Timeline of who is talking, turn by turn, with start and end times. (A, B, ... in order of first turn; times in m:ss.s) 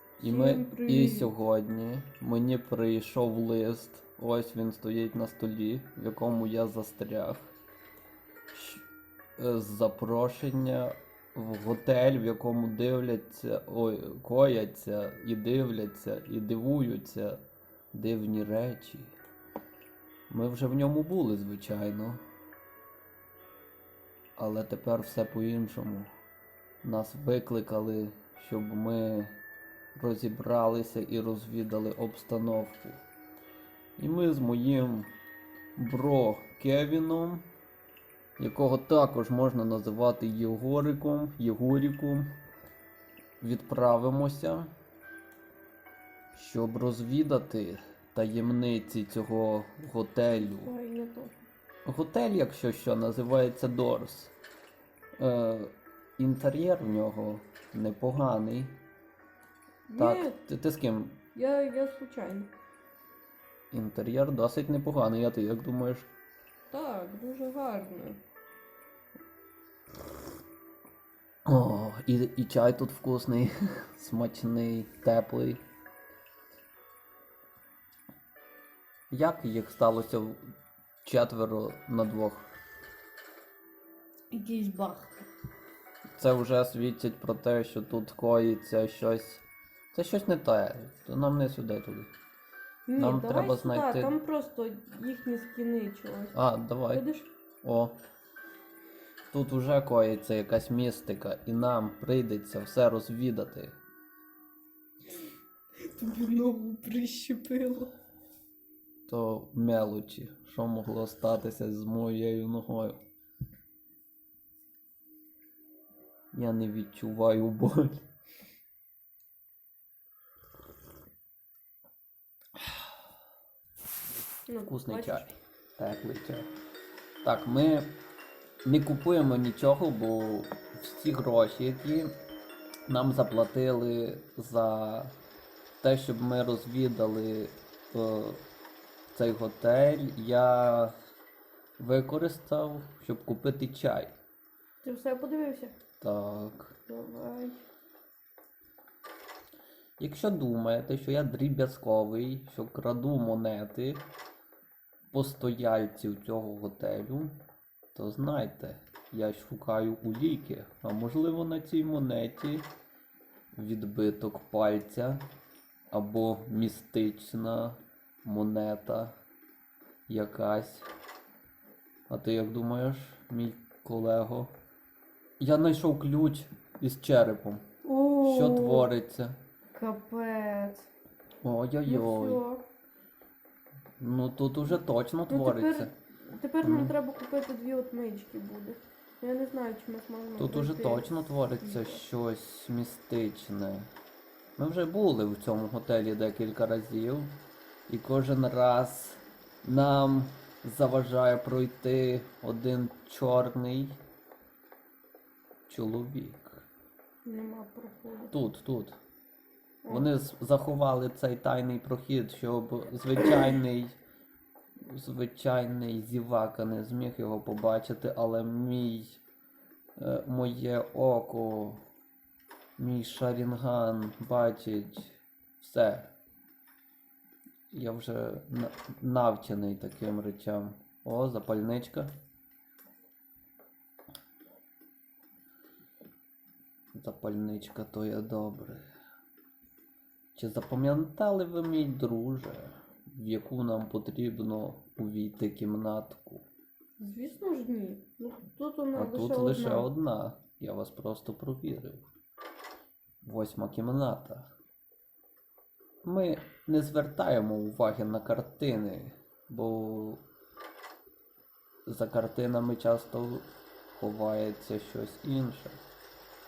0:00.2-0:01.3 A
0:00.2-0:07.5 B
0:08.5-0:08.8 B
0:09.4-0:17.4 B
0:17.9-0:19.1 B
0:20.3-0:22.2 B
0:24.4-0:26.1 B
0:26.8-0:29.4 B
0:29.9-0:33.0 B
0:34.0-0:35.1 B
0:35.8-0:37.4 B
0:38.4-0:42.3 B
0:43.4-0:44.7 B
0:46.3-0:50.7 B
0:50.3-0:51.3 A
0:51.8-0:54.3 B
0:55.2-0:58.8 B
0:59.9-1:00.4 A
1:00.0-1:01.2 B
1:01.3-1:02.5 A
1:03.7-1:06.1 B
1:06.7-1:08.2 A
1:11.4-1:15.6 B
1:19.1-1:20.4 B
1:21.0-1:22.5 B
1:24.3-1:25.2 A
1:26.2-1:32.1 B
1:32.9-1:36.4 A
1:33.0-1:34.2 B
1:36.3-1:37.0 B
1:36.9-1:37.3 A
1:37.6-1:38.0 B
1:39.3-1:43.8 B
1:45.8-1:47.9 A
1:49.1-1:53.0 B
1:56.3-1:58.0 B
2:04.5-2:05.4 A
2:04.6-2:06.5 B
2:07.2-2:07.9 B
2:08.6-2:12.1 B
2:12.9-2:15.2 B
2:15.8-2:18.4 B
2:19.1-2:20.9 B
2:21.8-2:24.2 B
2:24.8-2:25.8 A
2:26.0-2:26.8 B
2:26.9-2:27.6 A
2:30.0-2:34.1 B
2:35.1-2:37.4 B
2:37.9-2:42.7 B
2:43.5-2:45.2 B
2:45.9-2:49.2 B
2:50.1-2:50.9 B
2:52.1-2:54.5 B
2:55.4-2:57.6 B
2:57.8-2:58.9 A
2:58.2-2:59.4 B
2:59.7-3:00.9 A
3:01.4-3:02.4 B
3:01.8-3:02.7 A
3:04.0-3:05.9 B
3:05.3-3:11.1 A
3:06.6-3:07.0 B
3:10.4-3:13.9 B
3:11.6-3:12.0 A
3:14.6-3:17.3 B
3:17.9-3:24.0 B
3:25.7-3:26.7 B
3:27.2-3:28.3 A
3:28.3-3:29.0 B
3:29.9-3:34.0 B
3:34.8-3:39.2 B
3:40.0-3:41.8 B
3:42.8-3:46.1 B
3:47.7-3:52.1 B
3:56.9-3:58.8 B
4:00.3-4:06.4 B
4:07.0-4:09.9 A
4:08.9-4:12.1 B
4:13.2-4:14.5 B
4:16.0-4:20.2 B
4:21.9-4:25.8 B